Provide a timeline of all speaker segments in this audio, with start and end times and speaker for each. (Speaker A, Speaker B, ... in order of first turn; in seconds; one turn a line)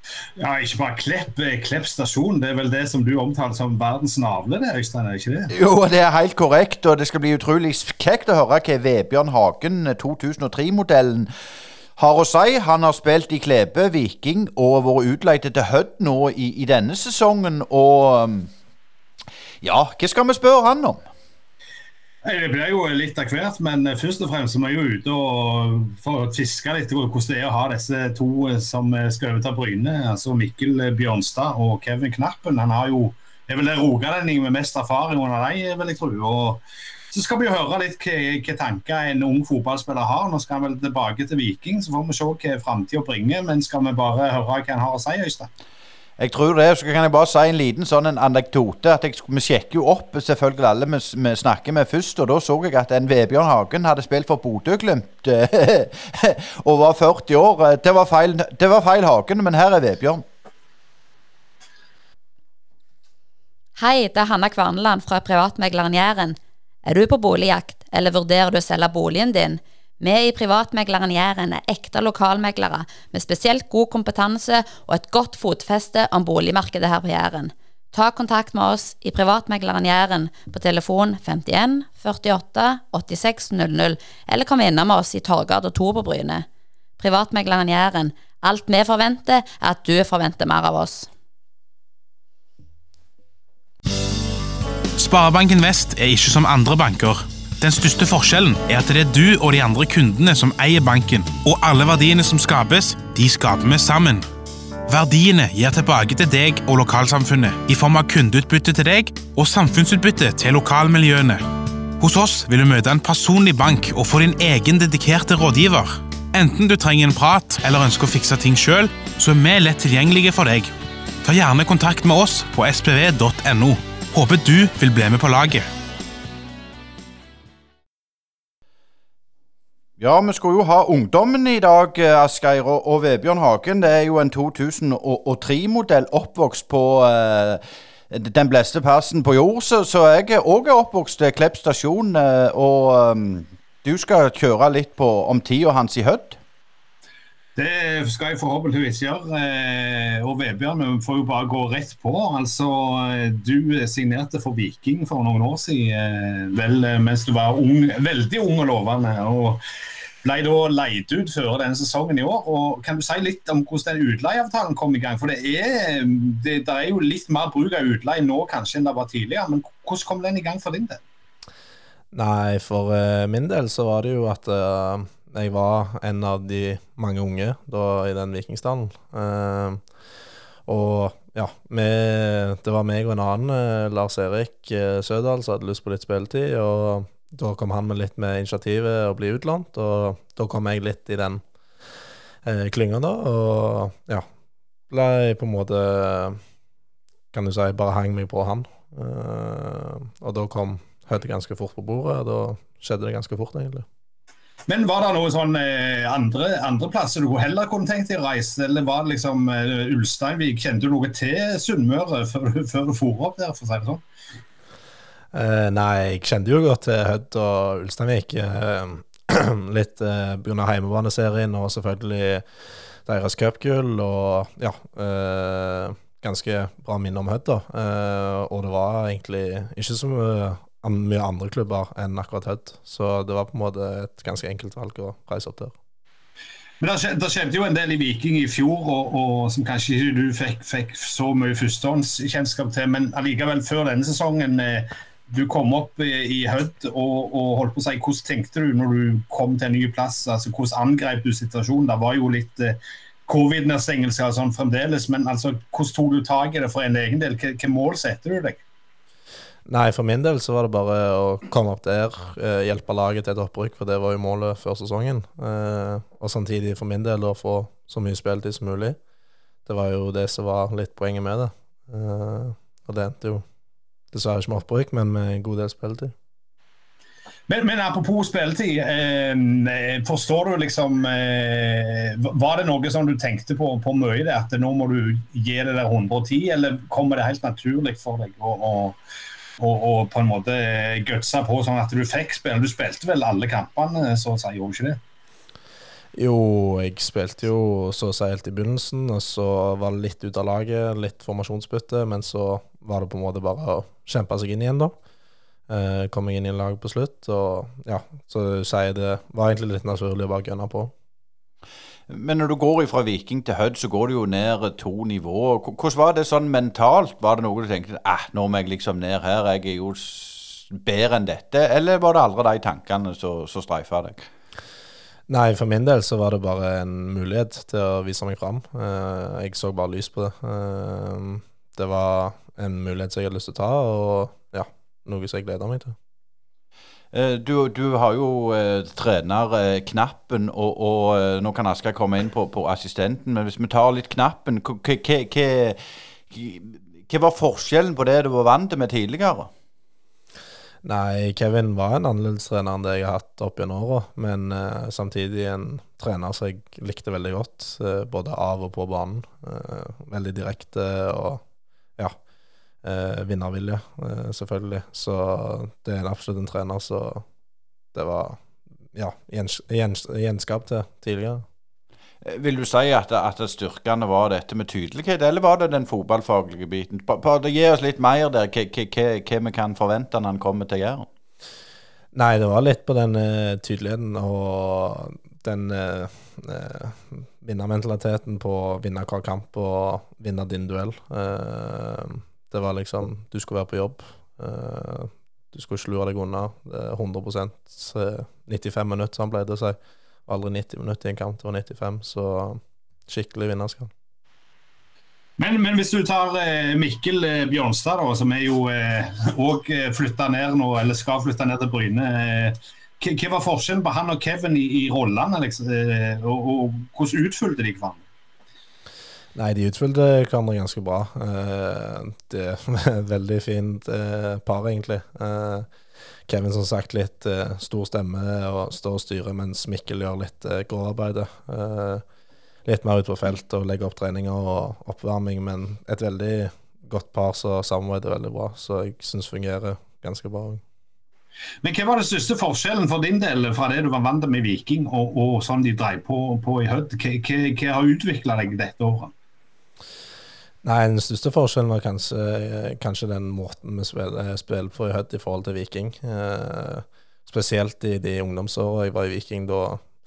Speaker A: 0.4-5.5
Speaker B: 5.5-11.3
Speaker B: 12.0-18.5
Speaker B: 19.6-21.1
Speaker A: 22.2-45.5
Speaker B: 46.2-60.3
Speaker C: 63.8-86.5
Speaker C: 87.0-91.1
Speaker D: 95.0-104.3
Speaker D: 104.9-111.4
Speaker D: 112.0-120.7
Speaker D: 121.2-125.7
Speaker B: 130.0-146.4
Speaker A: 147.6-159.6
Speaker A: 160.2-171.0
Speaker E: 172.1-179.8
Speaker E: 180.7-191.4
Speaker E: 192.4-194.3
Speaker E: 194.9-196.4
Speaker E: 197.3-203.9
Speaker A: 204.7-214.0
Speaker E: 215.3-222.4
Speaker E: 223.1-235.7
Speaker A: 236.8-258.6
Speaker E: 259.7-269.0
Speaker E: 269.7-273.4
Speaker E: 274.1-276.1
Speaker A: 277.5-289.0
Speaker A: 289.6-295.0
Speaker E: 296.1-305.0
Speaker E: 305.7-310.9
Speaker B: 312.1-324.3
Speaker E: 325.3-336.0
Speaker B: 337.1-345.8
Speaker B: 346.3-349.5
Speaker E: 350.8-361.4
Speaker E: 362.8-367.2
Speaker E: 367.9-368.4
Speaker E: 368.9-371.4
Speaker B: 372.2-381.1
Speaker E: 382.1-403.9
Speaker A: 405.4-418.0
Speaker E: 419.4-425.7
Speaker E: 426.3-432.0
Speaker E: 432.6-440.6
Speaker A: 441.6-449.1
Speaker E: 450.6-459.8